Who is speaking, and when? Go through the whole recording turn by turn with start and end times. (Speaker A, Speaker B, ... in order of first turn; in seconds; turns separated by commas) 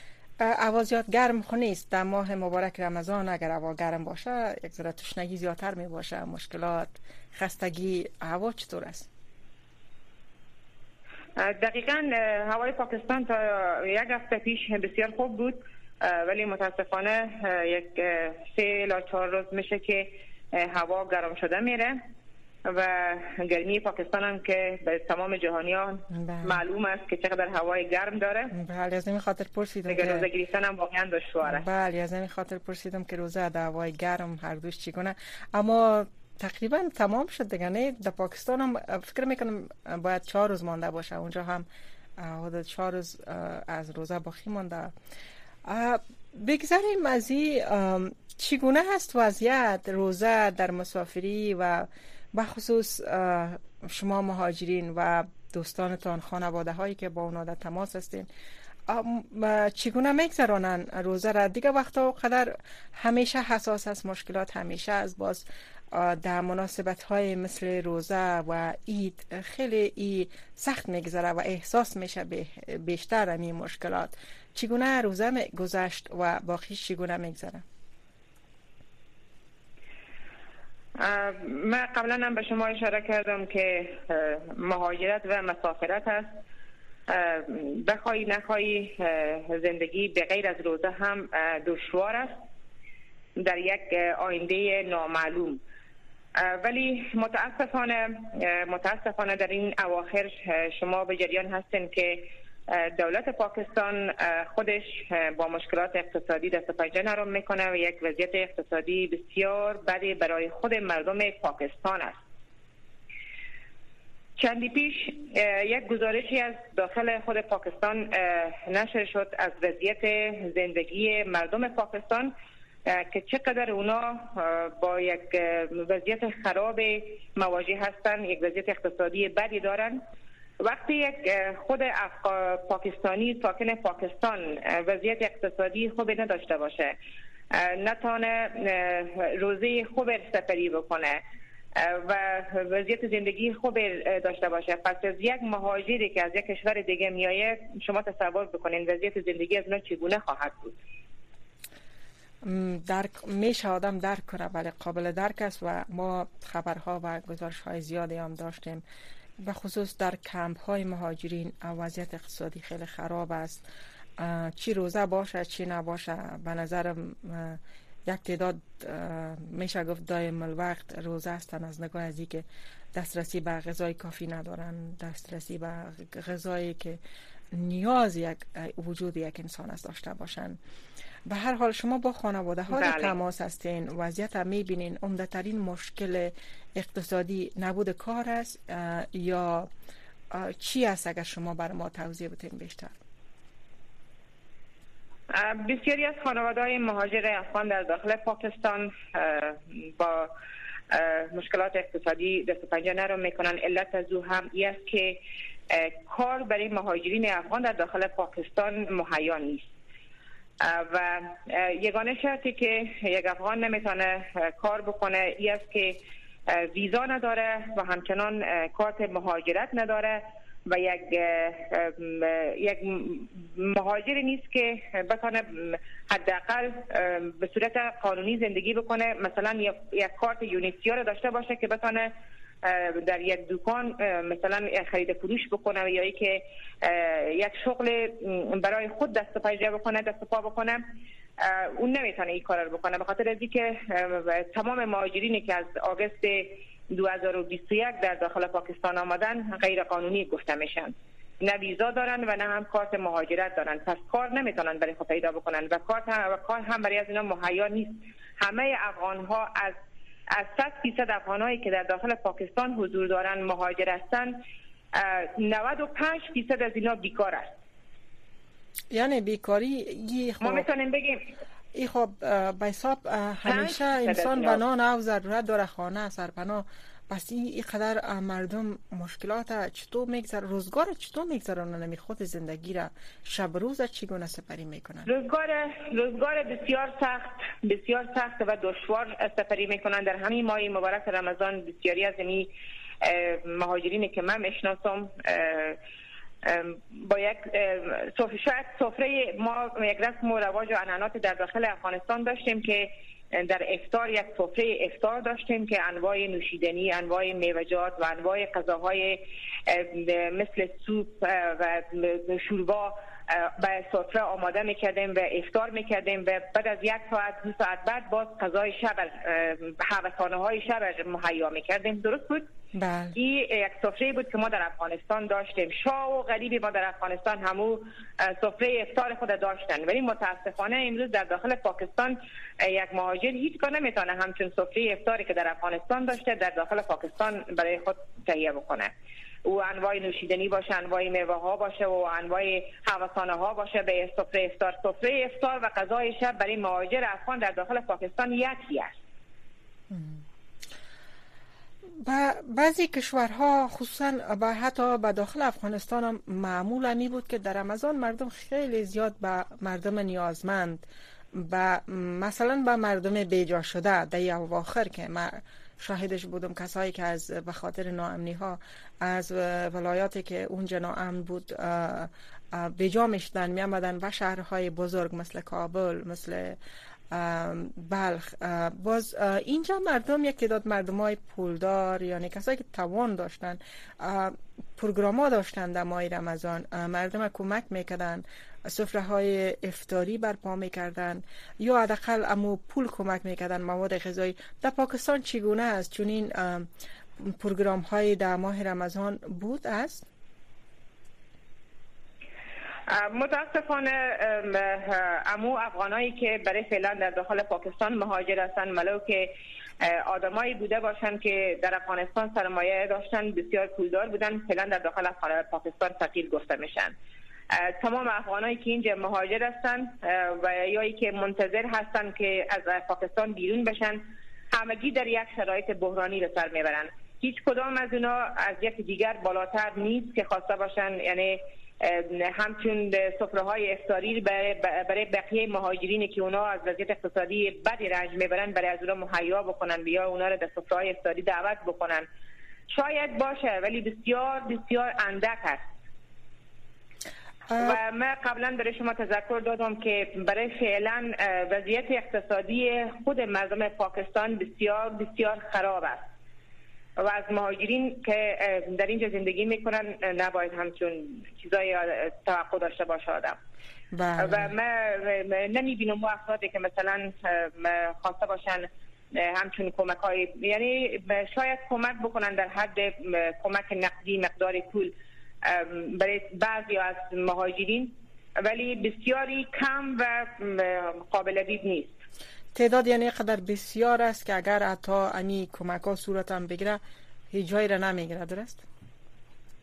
Speaker A: 0.4-9.1, Speaker B: 11.4-22.0, Speaker B: 22.6-28.5, Speaker A: 26.1-26.6, Speaker A: 28.5-30.3, Speaker B: 29.9-31.6, Speaker A: 31.4-41.7, Speaker A: 42.2-44.9, Speaker A: 45.6-58.3, Speaker A: 58.9-77.6, Speaker B: 81.0-86.4, Speaker B: 87.1-92.3, Speaker B: 93.4-95.6, Speaker B: 96.4-112.2, Speaker B: 114.4-122.3, Speaker B: 122.9-130.0, Speaker B: 130.6-136.9, Speaker B: 137.5-141.2, Speaker B: 141.8-150.8, Speaker A: 152.4-158.8, Speaker A: 159.4-163.6, Speaker A: 164.2-177.0, Speaker A: 177.5-180.6, Speaker A: 181.3-189.7, Speaker B: 182.7-183.1, Speaker A: 190.3-193.0, Speaker B: 195.3-200.3, Speaker B: 200.9-205.2, Speaker B: 205.7-209.7, Speaker B: 210.6-216.0, Speaker B: 216.5-232.1, Speaker B: 232.6-240.8, Speaker B: 241.4-259.8, Speaker B: 260.3-264.4, Speaker B: 264.9-267.5, Speaker A: 268.9-270.7, Speaker B: 270.4-271.3, Speaker A: 271.7-285.1, Speaker B: 273.4-274.6, Speaker B: 285.1-292.5, Speaker B: 293.0-295.8, Speaker B: 296.4-322.5, Speaker A: 322.7-323.1, Speaker B: 323.1-338.9, Speaker B: 339.4-348.9, Speaker A: 349.9-350.2, Speaker A: 352.0-376.6, Speaker A: 377.1-400.1, Speaker B: 402.9-416.9, Speaker B: 417.5-424.0, Speaker B: 424.5-442.1, Speaker B: 442.7-445.6, Speaker B: 447.6-456.0, Speaker B: 457.0-463.4, Speaker A: 463.9-464.5, Speaker B: 464.2-474.9, Speaker B: 475.4-481.9, Speaker A: 482.5-486.8, Speaker A: 487.3-488.6